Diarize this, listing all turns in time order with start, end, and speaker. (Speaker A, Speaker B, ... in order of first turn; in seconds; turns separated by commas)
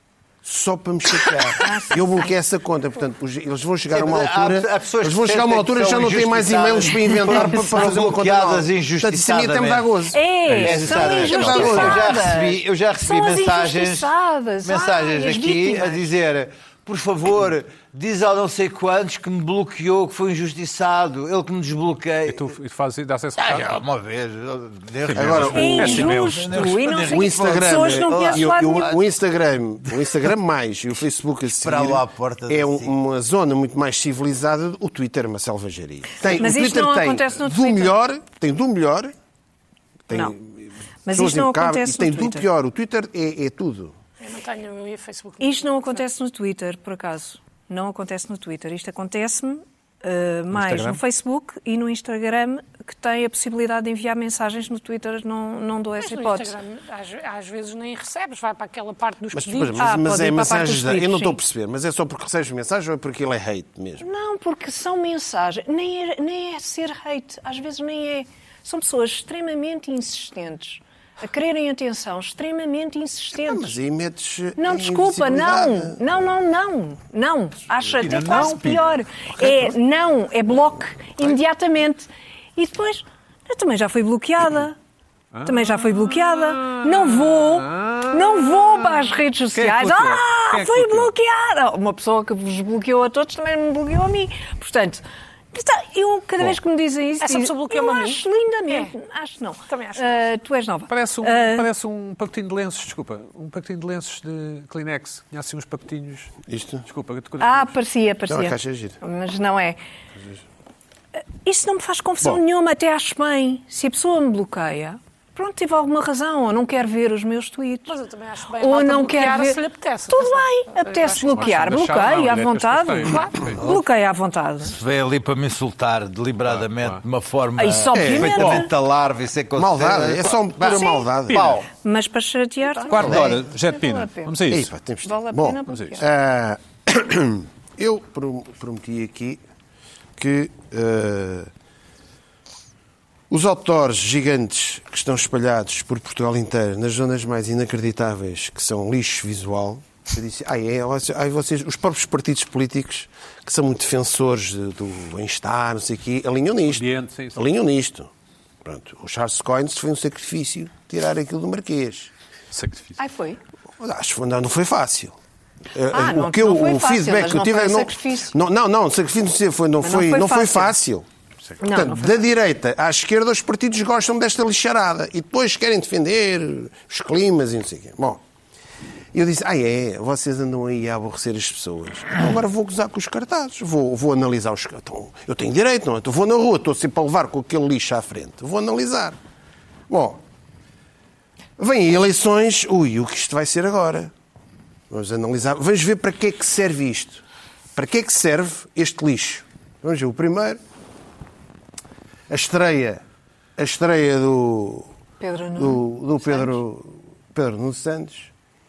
Speaker A: 0.4-12.1, Speaker B: 1.5-2.3, Speaker C: 3.9-9.9, Speaker B: 10.1-16.1, Speaker D: 10.4-11.1, Speaker C: 10.6-14.1, Speaker D: 11.6-11.9, Speaker C: 14.6-22.5, Speaker D: 22.3-23.7, Speaker C: 23.4-29.0, Speaker D: 25.0-26.6, Speaker A: 25.1-26.1, Speaker B: 25.5-28.9, Speaker A: 26.9-39.1, Speaker C: 31.5-32.9, Speaker B: 36.2-37.9, Speaker A: 40.1-43.9, Speaker B: 41.0-42.5, Speaker E: 44.2-46.0, Speaker B: 45.4-56.5, Speaker D: 50.5-51.0, Speaker E: 56.0-59.9, Speaker A: 59.3-64.1, Speaker B: 59.8-61.4, Speaker B: 64.0-73.7, Speaker A: 73.3-76.2, Speaker B: 74.6-84.8, Speaker D: 78.0-79.0, Speaker A: 79.4-79.7, Speaker D: 85.3-88.9, Speaker B: 85.4-101.7, Speaker D: 89.5-91.1, Speaker E: 97.2-98.9, Speaker E: 99.7-100.2, Speaker D: 100.9-106.3, Speaker A: 106.5-106.8, Speaker D: 106.8-107.7, Speaker B: 107.4-109.8, Speaker A: 108.3-109.0, Speaker B: 111.4-118.0, Speaker E: 117.9-121.5, Speaker B: 118.6-124.8, Speaker D: 121.3-123.6, Speaker C: 124.7-130.8, Speaker D: 126.5-127.0, Speaker B: 127.6-128.7, Speaker A: 127.9-128.5, Speaker D: 128.3-128.6, Speaker A: 129.6-131.6, Speaker B: 130.7-131.1, Speaker D: 131.3-131.6, Speaker C: 131.3-131.7, Speaker B: 131.7-134.4, Speaker D: 132.9-134.7, Speaker A: 132.9-133.3, Speaker A: 134.5-139.4, Speaker B: 135.1-136.1, Speaker D: 135.7-136.0, Speaker A: 140.2-141.5, Speaker A: 143.3-158.1, Speaker D: 156.7-157.4, Speaker A: 158.6-162.1, Speaker D: 162.5-163.0, Speaker B: 163.0-163.4, Speaker A: 163.8-165.2, Speaker A: 165.7-171.1, Speaker B: 165.9-168.3, Speaker B: 169.8-170.7, Speaker B: 171.6-172.1, Speaker A: 171.6-178.2, Speaker A: 179.1-189.2, Speaker A: 189.9-190.2, Speaker A: 191.6-194.1, Speaker A: 194.9-197.2, Speaker A: 197.7-200.6, Speaker A: 202.3-203.0, Speaker A: 203.6-204.9, Speaker B: 205.2-206.5, Speaker A: 205.6-208.3